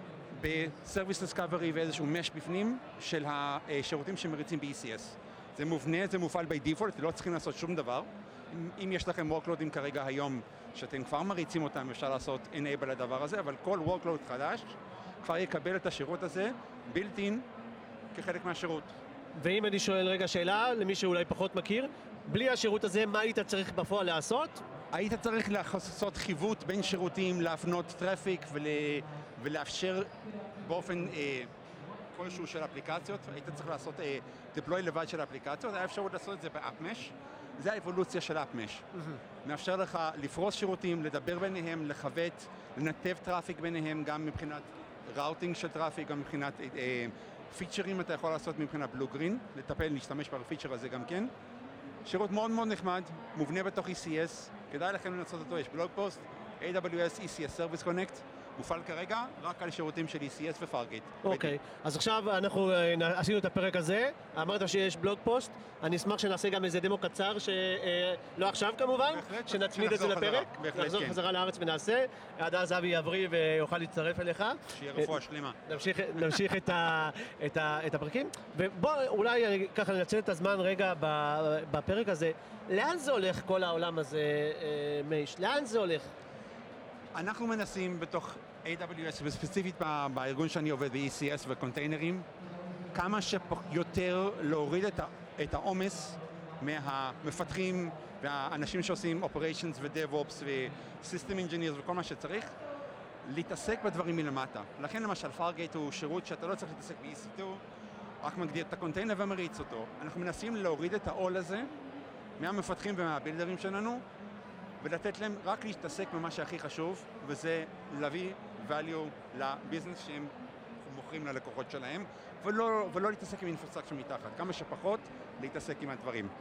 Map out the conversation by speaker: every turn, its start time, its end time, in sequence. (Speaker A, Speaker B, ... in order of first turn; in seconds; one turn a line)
Speaker A: 0.3-17.5
Speaker A: 18.1-18.9
Speaker B: 19.4-24.6
Speaker A: 24.9-30.1
Speaker A: 30.6-31.5
Speaker A: 32.1-38.9
Speaker A: 39.4-51.3
Speaker A: 52.0-61.5
Speaker B: 61.2-75.1
Speaker A: 69.0-71.2
Speaker A: 74.7-75.8
Speaker B: 75.7-86.1
Speaker A: 87.1-92.3
Speaker A: 92.9-102.5
Speaker A: 103.2-107.6
Speaker A: 108.2-111.7
Speaker A: 112.4-114.0
Speaker A: 114.8-126.3